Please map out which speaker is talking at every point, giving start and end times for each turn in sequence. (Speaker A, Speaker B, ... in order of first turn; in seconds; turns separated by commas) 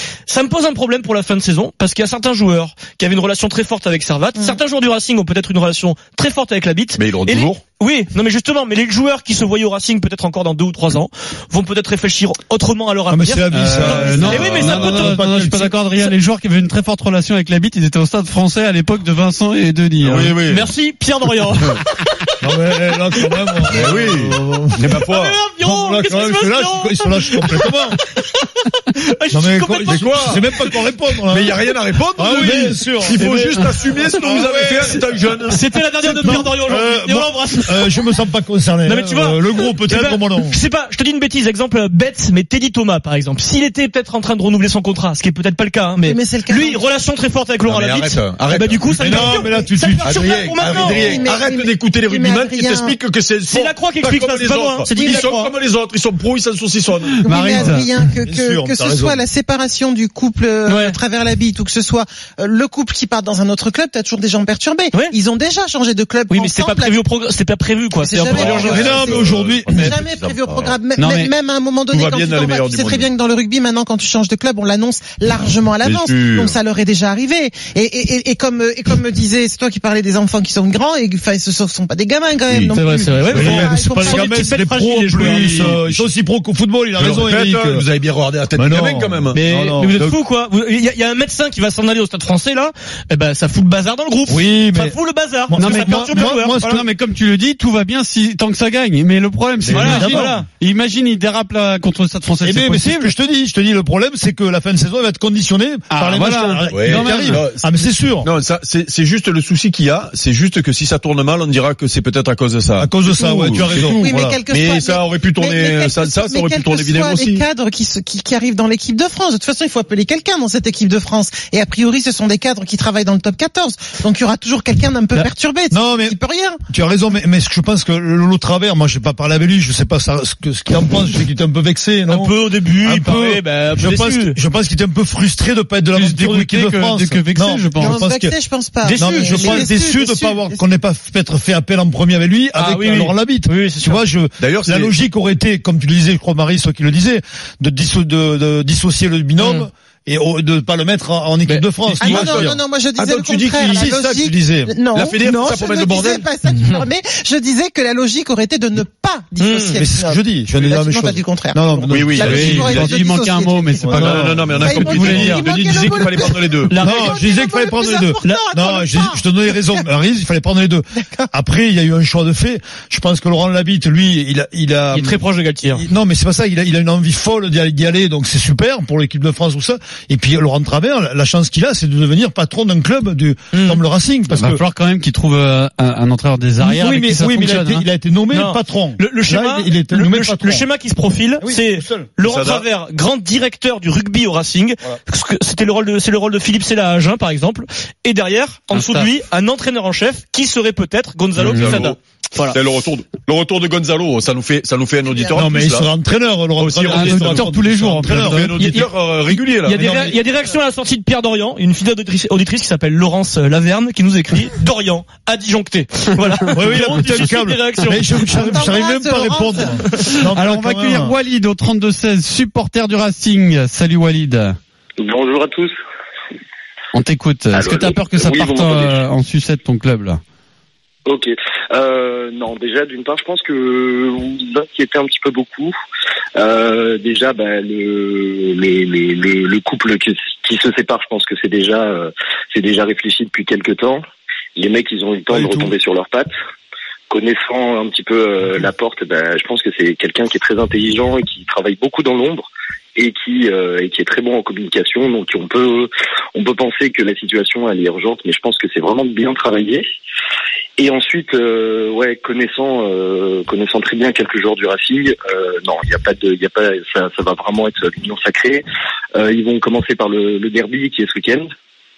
Speaker A: 0.3-15.5, Speaker B: 7.0-7.6, Speaker C: 13.1-15.7, Speaker D: 13.5-20.4, Speaker B: 20.0-20.7, Speaker A: 20.5-22.4, Speaker C: 22.4-25.0, Speaker A: 23.1-23.9, Speaker B: 23.7-25.4, Speaker A: 25.0-30.8, Speaker C: 25.6-28.0, Speaker C: 29.3-31.6, Speaker B: 29.6-30.4, Speaker B: 31.3-35.6, Speaker C: 32.2-35.1, Speaker A: 35.5-38.0, Speaker C: 36.0-40.6, Speaker A: 38.9-51.2, Speaker E: 46.0-46.8, Speaker B: 47.6-49.5, Speaker C: 48.9-51.2, Speaker B: 50.0-57.6, Speaker E: 50.6-53.0, Speaker A: 53.5-55.5, Speaker E: 54.9-55.3, Speaker D: 57.2-57.9, Speaker E: 57.2-67.0, Speaker C: 58.2-59.2, Speaker A: 60.7-61.0, Speaker A: 66.3-69.0, Speaker E: 68.0-84.6, Speaker B: 68.2-70.8, Speaker C: 68.7-69.9, Speaker D: 71.0-71.3, Speaker B: 71.9-73.1, Speaker B: 75.8-76.5, Speaker B: 82.5-83.7, Speaker A: 82.7-85.8, Speaker C: 83.3-87.8, Speaker B: 85.1-86.0, Speaker B: 87.0-89.4, Speaker C: 88.6-90.2, Speaker A: 89.3-96.8, Speaker C: 94.3-95.0, Speaker C: 95.5-96.8, Speaker D: 95.6-103.1, Speaker B: 99.7-99.9, Speaker C: 99.7-100.4, Speaker A: 99.7-100.5, Speaker C: 102.4-108.3, Speaker D: 105.9-107.4, Speaker B: 106.7-107.7, Speaker B: 108.2-117.4, Speaker C: 112.8-114.4, Speaker E: 113.7-126.6, Speaker C: 125.7-126.2, Speaker C: 126.7-138.3, Speaker A: 132.1-134.4, Speaker D: 135.9-138.0, Speaker E: 137.8-140.6, Speaker A: 138.8-139.7, Speaker C: 138.9-152.6, Speaker A: 142.6-144.0, Speaker B: 144.4-144.9, Speaker A: 149.4-149.7, Speaker B: 151.5-154.0, Speaker E: 152.0-164.1, Speaker C: 153.7-154.8, Speaker B: 154.9-156.3, Speaker A: 159.4-159.8, Speaker C: 159.8-162.9, Speaker B: 161.9-163.0, Speaker D: 162.2-165.4, Speaker C: 163.8-165.4, Speaker B: 163.9-166.8, Speaker E: 164.6-169.8, Speaker A: 166.7-167.3, Speaker C: 166.8-175.2, Speaker E: 170.9-171.3, Speaker A: 174.9-175.8, Speaker C: 175.7-184.6, Speaker A: 183.5-183.8, Speaker D: 184.4-187.8, Speaker C: 186.6-190.7, Speaker A: 188.3-202.6, Speaker C: 191.4-192.1, Speaker B: 192.2-192.7, Speaker D: 198.7-199.1, Speaker D: 201.4-201.7, Speaker B: 201.5-205.9, Speaker E: 205.2-205.4, Speaker C: 205.3-208.5, Speaker B: 206.6-210.0, Speaker D: 206.9-208.6, Speaker A: 208.6-208.9, Speaker A: 209.6-218.6, Speaker C: 209.7-210.2, Speaker C: 216.5-221.2, Speaker E: 218.3-219.8, Speaker D: 220.3-224.6, Speaker F: 225.0-225.7, Speaker D: 226.9-230.2, Speaker F: 227.5-229.0, Speaker F: 231.1-235.8, Speaker F: 236.4-244.0, Speaker F: 244.6-246.3, Speaker C: 245.3-245.7, Speaker F: 247.1-259.8, Speaker F: 260.8-268.6, Speaker F: 269.1-271.5